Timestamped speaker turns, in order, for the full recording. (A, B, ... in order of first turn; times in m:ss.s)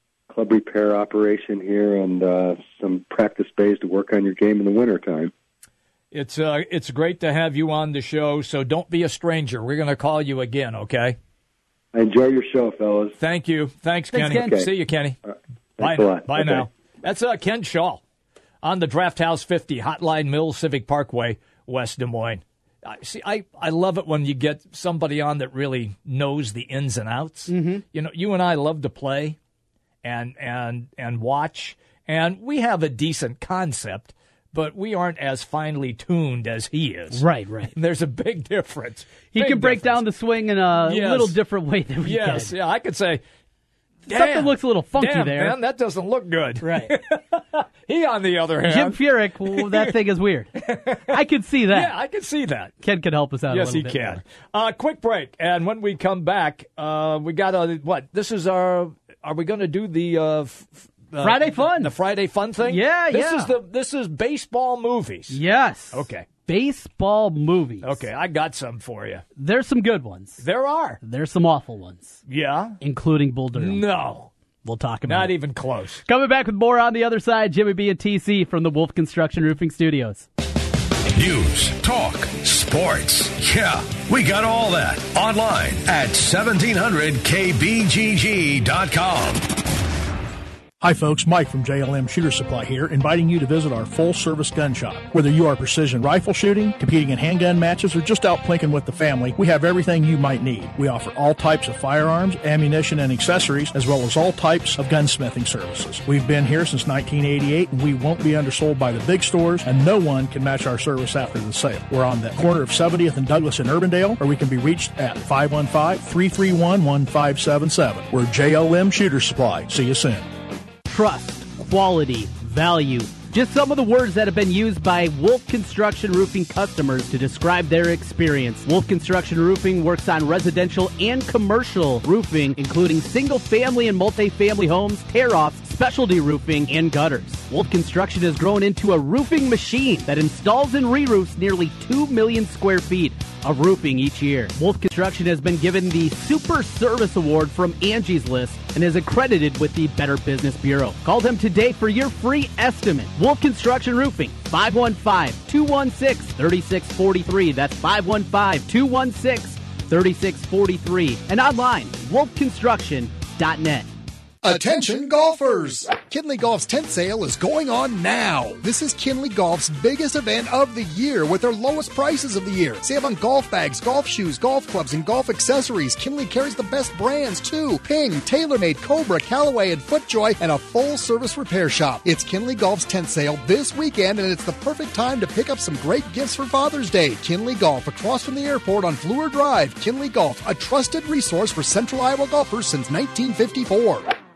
0:00.3-0:05.3 A
0:06.1-0:11.2 B
0:11.9-0:13.2 A
0:13.2-0:15.2 B
0:14.1-0:14.6 C
0:14.3-0:14.7 A
0:15.8-0:16.7 A
0:15.8-0:18.0 B
0:18.6-0:29.4 B
0:27.5-0:27.8 C
0:30.0-0:40.0 B
0:37.1-0:37.7 C
0:39.3-0:42.5 C
0:40.8-0:41.4 B
0:42.0-0:43.2 B
0:44.1-0:45.6 C
0:44.1-0:49.9 B
0:46.6-0:46.9 C
0:48.6-0:51.9 C
0:50.6-0:51.2 B
0:51.7-0:52.7 B
0:52.8-0:54.2 C
0:53.5-1:05.4 B
1:01.2-1:01.9 C
1:02.6-1:03.6 C
1:05.3-1:08.0 C
1:05.9-1:06.3 B
1:07.8-1:09.2 B
1:09.4-1:10.4 C
1:10.4-1:11.0 B
1:11.0-1:12.2 C
1:12.3-1:12.8 B
1:12.8-1:13.8 C
1:13.6-1:14.3 B
1:14.6-1:15.3 C
1:15.0-1:16.0 B
1:16.0-1:20.3 C
1:21.1-1:29.4 D
1:30.8-2:00.3 E
2:00.9-2:43.9 C
2:44.4-3:14.1 F